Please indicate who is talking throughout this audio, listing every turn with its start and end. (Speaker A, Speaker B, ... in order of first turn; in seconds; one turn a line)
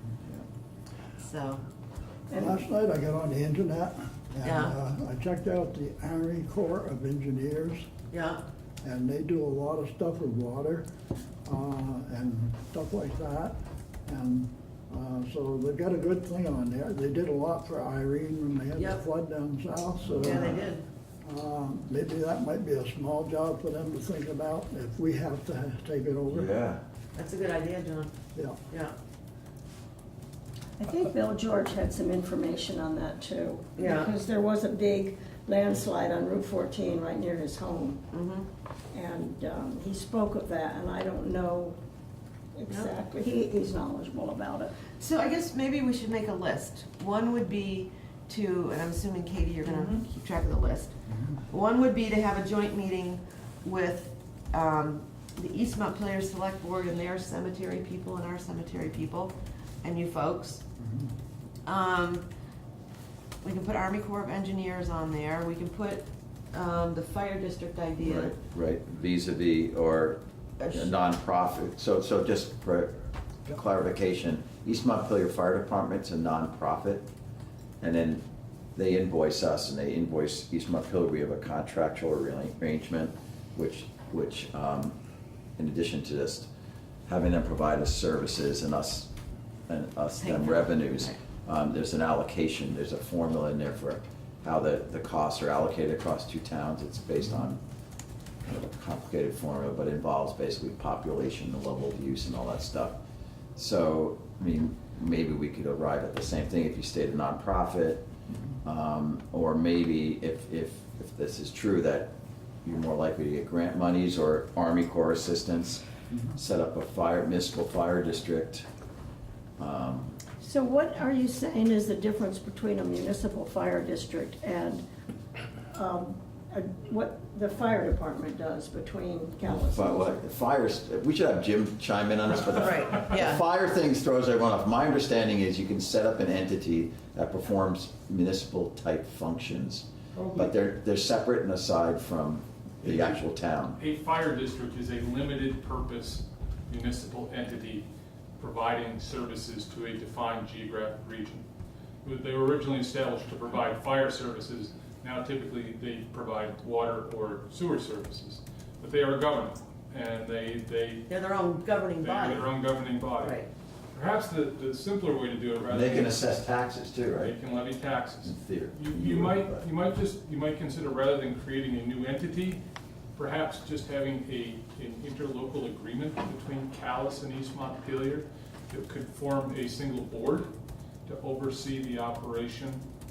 Speaker A: 1.2-1.6
Speaker B: 2.3-2.7
Speaker C: 2.4-7.8
Speaker A: 4.4-4.7
Speaker A: 8.1-8.4
Speaker C: 8.8-10.9
Speaker C: 11.4-13.5
Speaker C: 14.1-20.6
Speaker A: 18.8-19.0
Speaker D: 20.1-20.4
Speaker A: 20.2-20.8
Speaker C: 21.2-26.5
Speaker D: 26.3-26.8
Speaker A: 27.1-28.1
Speaker B: 30.8-38.0
Speaker A: 33.8-34.1
Speaker A: 38.1-38.5
Speaker B: 38.9-41.8
Speaker B: 42.5-44.8
Speaker A: 44.9-50.9
Speaker A: 51.5-60.6
Speaker A: 61.6-62.3
Speaker A: 63.4-68.4
Speaker D: 68.0-77.1
Speaker A: 70.6-71.0
Speaker D: 77.8-78.2
Speaker D: 78.7-84.9
Speaker D: 85.6-86.5
Speaker D: 87.1-89.1
Speaker D: 89.7-97.6
Speaker A: 90.2-91.2
Speaker D: 98.4-103.0
Speaker D: 103.5-108.0
Speaker D: 108.6-112.1
Speaker D: 112.6-115.8
Speaker D: 116.3-118.7
Speaker D: 119.6-120.2
Speaker B: 120.4-124.8
Speaker B: 125.7-130.1
Speaker D: 129.4-143.8
Speaker A: 132.5-133.4
Speaker E: 140.1-140.6
Speaker E: 142.8-143.2
Speaker E: 143.8-147.9
Speaker E: 148.4-151.4
Speaker E: 152.0-161.1
Speaker A: 161.1-162.5
Speaker E: 162.0-163.4
Speaker A: 163.2-163.5
Speaker E: 163.9-166.3
Speaker D: 165.7-167.3
Speaker E: 167.2-172.6
Speaker D: 168.2-169.6
Speaker E: 173.2-180.5
Speaker E: 181.1-182.8